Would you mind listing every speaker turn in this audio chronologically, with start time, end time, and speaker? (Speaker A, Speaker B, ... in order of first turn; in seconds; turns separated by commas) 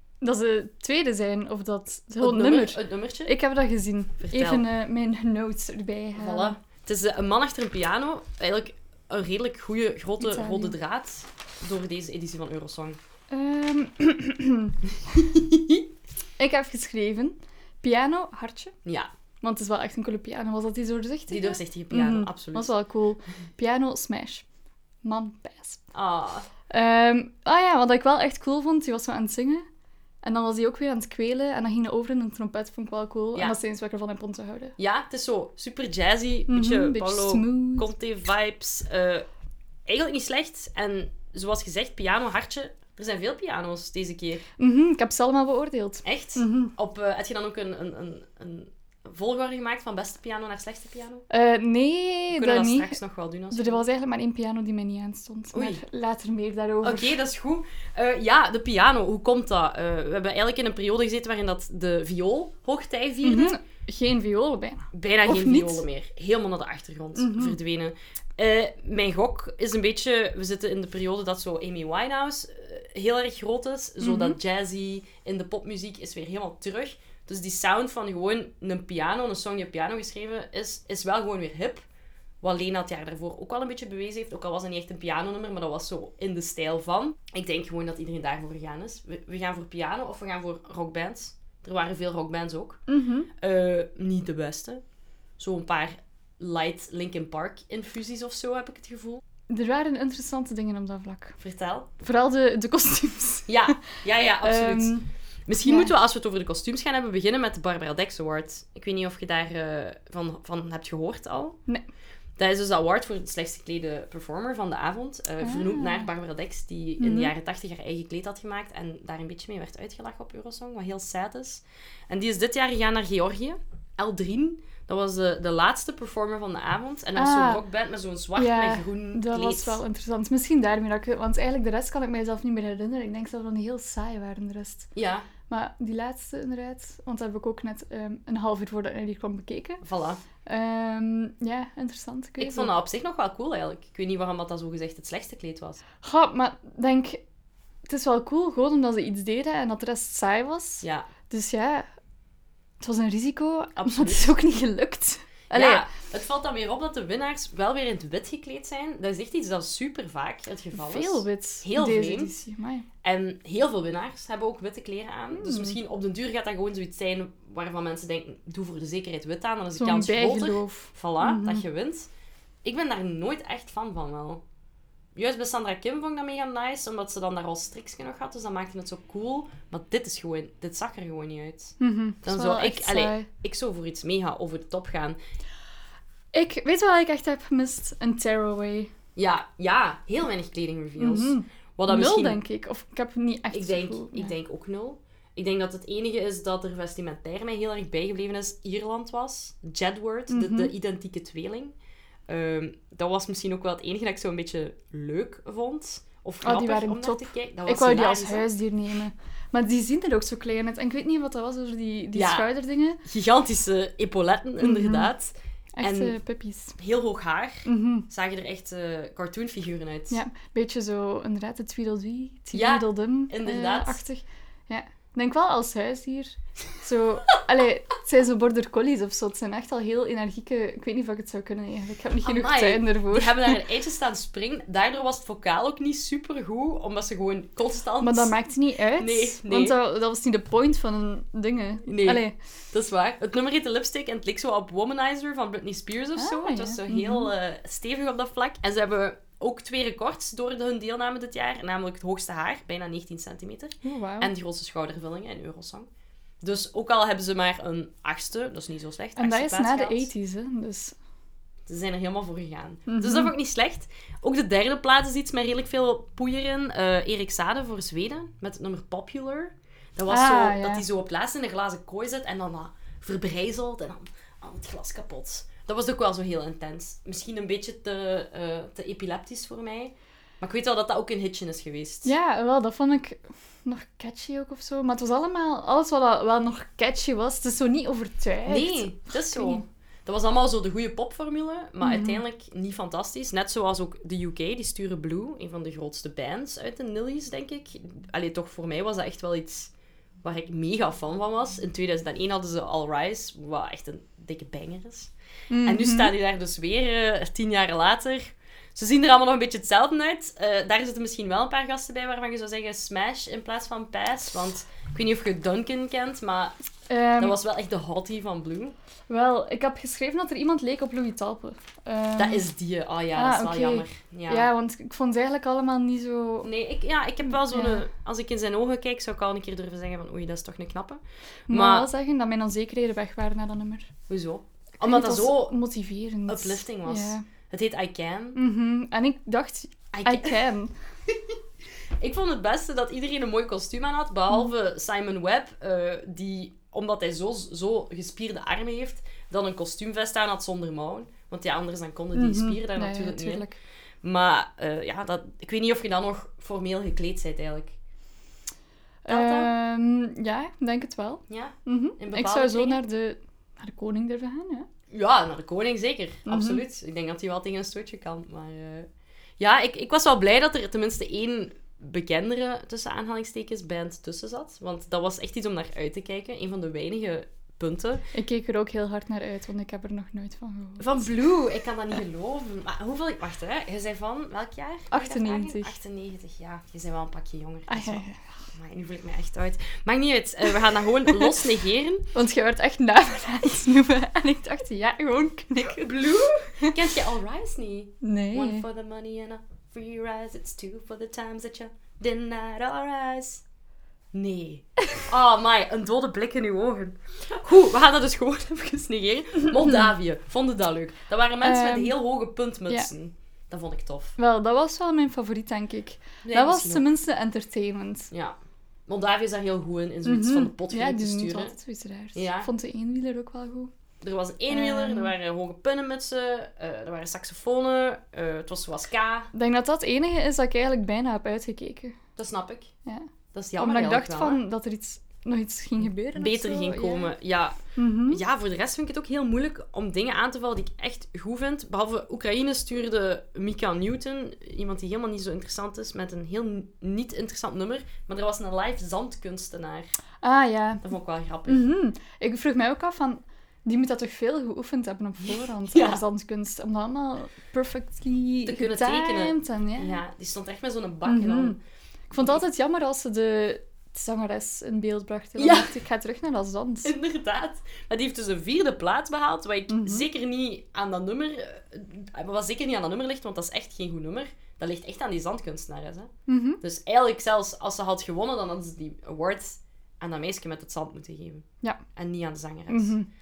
Speaker A: 0.2-6.6, Speaker B: 2.2-3.3, Speaker B: 4.2-4.7, Speaker B: 6.1-13.0, Speaker A: 10.2-10.8, Speaker A: 13.3-14.8, Speaker B: 15.1-15.8, Speaker A: 16.4-18.7, Speaker B: 18.9-19.1, Speaker A: 19.4-24.5, Speaker B: 21.3-22.7, Speaker A: 25.0-25.9, Speaker B: 25.9-26.5, Speaker A: 26.7-29.6, Speaker A: 30.2-34.8, Speaker B: 34.8-39.3, Speaker A: 36.5-37.9, Speaker B: 39.9-44.5, Speaker A: 44.6-46.7, Speaker B: 46.0-51.2, Speaker A: 51.3-53.0, Speaker B: 52.3-53.9, Speaker A: 53.5-57.2, Speaker B: 55.5-55.8, Speaker B: 56.8-63.6, Speaker A: 63.2-65.8, Speaker B: 64.9-81.8, Speaker A: 67.2-67.6, Speaker A: 74.0-74.4, Speaker B: 82.4-92.8, Speaker A: 92.9-93.3, Speaker B: 93.4-94.8, Speaker B: 95.4-99.2, Speaker A: 99.5-101.4, Speaker B: 101.4-101.9, Speaker A: 102.0-103.8, Speaker B: 103.5-111.6, Speaker A: 104.4-105.1, Speaker A: 105.6-105.9, Speaker B: 112.4-129.8, Speaker A: 115.4-116.1, Speaker A: 117.0-117.3, Speaker A: 127.2-127.6, Speaker A: 128.4-134.9, Speaker B: 134.9-135.3, Speaker A: 135.5-139.8, Speaker B: 139.8-140.2, Speaker A: 140.5-142.7, Speaker B: 142.4-145.8, Speaker A: 146.0-147.2, Speaker A: 147.9-151.9, Speaker B: 150.8-151.1, Speaker A: 152.8-155.9, Speaker B: 153.8-154.3, Speaker B: 155.5-162.3, Speaker A: 160.7-162.9, Speaker B: 163.0-172.1, Speaker A: 165.3-165.8, Speaker A: 169.8-171.6, Speaker B: 172.6-174.4, Speaker B: 175.1-185.2, Speaker A: 181.8-183.3, Speaker A: 186.3-188.9, Speaker B: 189.2-192.4, Speaker A: 191.0-194.3, Speaker B: 193.5-201.8, Speaker A: 200.3-200.7, Speaker B: 202.3-208.5, Speaker A: 206.4-213.0, Speaker B: 212.1-212.5, Speaker B: 213.0-216.2, Speaker A: 214.6-215.1, Speaker A: 215.8-216.8, Speaker B: 216.8-220.2, Speaker A: 217.6-218.1, Speaker A: 220.1-233.6, Speaker B: 222.5-224.0, Speaker B: 232.2-238.3, Speaker A: 238.0-242.3, Speaker B: 239.0-239.8, Speaker B: 241.9-255.9, Speaker A: 246.2-247.3, Speaker A: 253.8-254.3, Speaker B: 256.4-260.1, Speaker A: 259.2-261.0, Speaker B: 261.6-282.1, Speaker A: 262.9-263.3, Speaker A: 270.1-270.9, Speaker A: 282.0-289.6, Speaker B: 288.5-299.7, Speaker A: 291.8-292.2, Speaker B: 300.2-305.1, Speaker A: 305.5-306.1, Speaker B: 305.6-316.6, Speaker A: 316.9-317.4, Speaker B: 317.2-318.8, Speaker A: 319.1-322.5, Speaker B: 322.2-324.5, Speaker A: 323.1-326.5, Speaker B: 326.4-331.9, Speaker A: 327.3-327.9, Speaker A: 331.5-333.9, Speaker B: 334.1-335.6, Speaker A: 334.8-337.2, Speaker B: 336.3-338.4, Speaker A: 338.4-340.7, Speaker B: 339.9-340.4, Speaker B: 341.1-341.4, Speaker B: 342.0-353.5, Speaker A: 352.1-353.6, Speaker B: 354.0-357.8, Speaker A: 359.0-364.7, Speaker B: 359.1-359.5, Speaker B: 361.3-362.8, Speaker B: 364.9-368.9, Speaker A: 366.2-366.6, Speaker B: 369.4-378.1, Speaker A: 378.1-380.9, Speaker B: 380.8-392.1, Speaker A: 384.9-385.8, Speaker A: 387.7-388.3, Speaker A: 392.1-396.1, Speaker B: 395.8-403.4, Speaker A: 398.0-398.6, Speaker B: 404.1-414.2, Speaker A: 411.4-412.0, Speaker A: 414.2-418.1, Speaker B: 416.2-416.8, Speaker B: 418.1-421.5, Speaker A: 420.0-423.7, Speaker B: 422.1-422.5, Speaker B: 424.0-429.3, Speaker A: 424.5-425.1, Speaker A: 429.3-432.0, Speaker B: 432.2-432.7, Speaker A: 432.9-437.1, Speaker B: 433.3-434.4, Speaker B: 436.1-449.9, Speaker A: 437.8-438.2, Speaker A: 450.2-450.8, Speaker B: 450.8-451.6, Speaker A: 451.5-460.0, Speaker B: 455.2-456.0, Speaker B: 458.5-461.6, Speaker A: 461.0-461.6, Speaker A: 462.1-466.9, Speaker B: 465.4-465.7, Speaker B: 466.8-483.0, Speaker A: 469.7-470.1, Speaker A: 476.3-476.6, Speaker A: 482.7-483.1